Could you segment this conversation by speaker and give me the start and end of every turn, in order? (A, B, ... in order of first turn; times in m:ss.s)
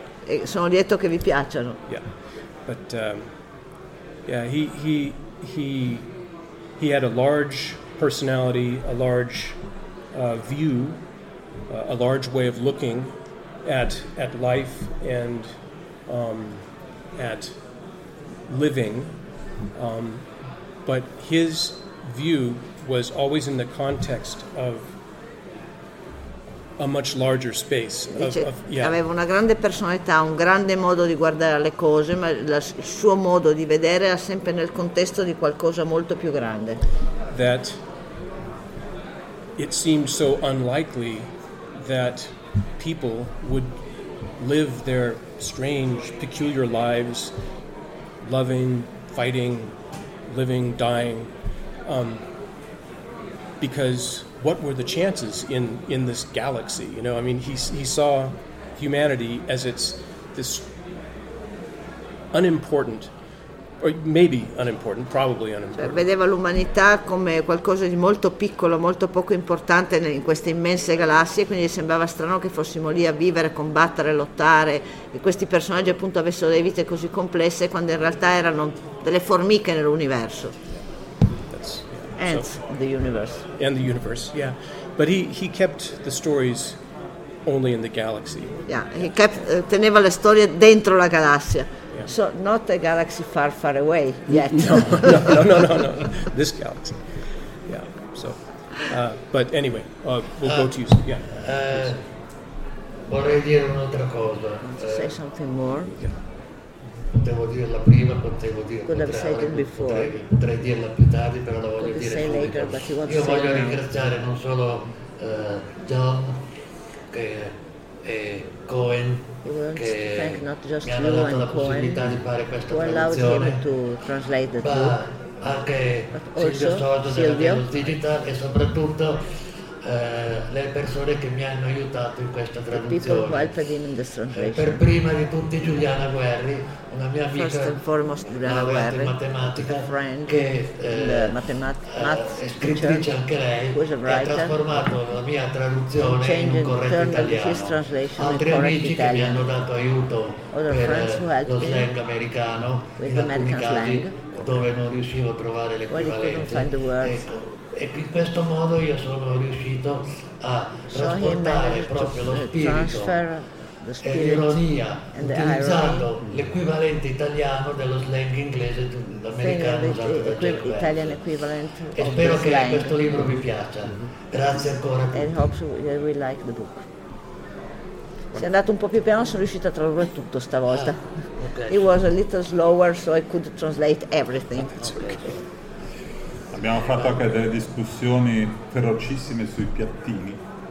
0:00.2-0:01.8 A
0:01.8-0:17.8 B
0:18.4-0:24.9 B
0:26.8-0:29.0 B
0:28.1-0:36.8 A
0:37.3-0:37.8 B
0:39.6-0:47.4 B
0:48.2-0:52.3 B
0:53.6-1:00.7 B
1:02.3-1:06.0 B
1:05.7-1:20.5 A
1:21.5-1:22.6 B
1:22.2-1:23.4 A
1:23.5-1:29.4 B
1:28.7-1:35.3 A
1:31.9-1:32.1 B
1:34.3-1:42.0 B
1:40.4-1:42.0 C
1:43.1-1:45.1 C
1:44.6-1:46.0 A
1:47.1-1:56.4 C
1:48.8-1:50.1 A
1:51.8-1:53.8 A
1:57.1-2:03.6 C
1:59.4-2:02.1 A
2:02.7-2:05.0 A
2:04.6-2:09.2 C
2:06.1-2:07.6 A
2:09.8-2:13.5 C
2:12.7-2:14.8 A
2:14.3-2:17.8 C
2:17.3-2:23.0 A
2:18.4-2:43.2 C
2:23.7-2:24.8 A
2:26.0-2:29.4 A
2:30.5-2:31.9 A
2:33.0-2:34.2 A
2:35.9-2:37.2 A
2:40.9-2:44.6 A
2:44.0-2:51.2 C
2:45.1-2:46.1 A
2:49.4-2:53.4 A
2:52.0-2:55.4 C
2:53.9-2:54.1 B
2:55.1-2:56.8 A
2:58.4-3:05.2 A
3:00.7-3:01.9 C
3:04.8-3:05.4 C
3:06.5-3:10.4 D
3:06.7-3:07.3 C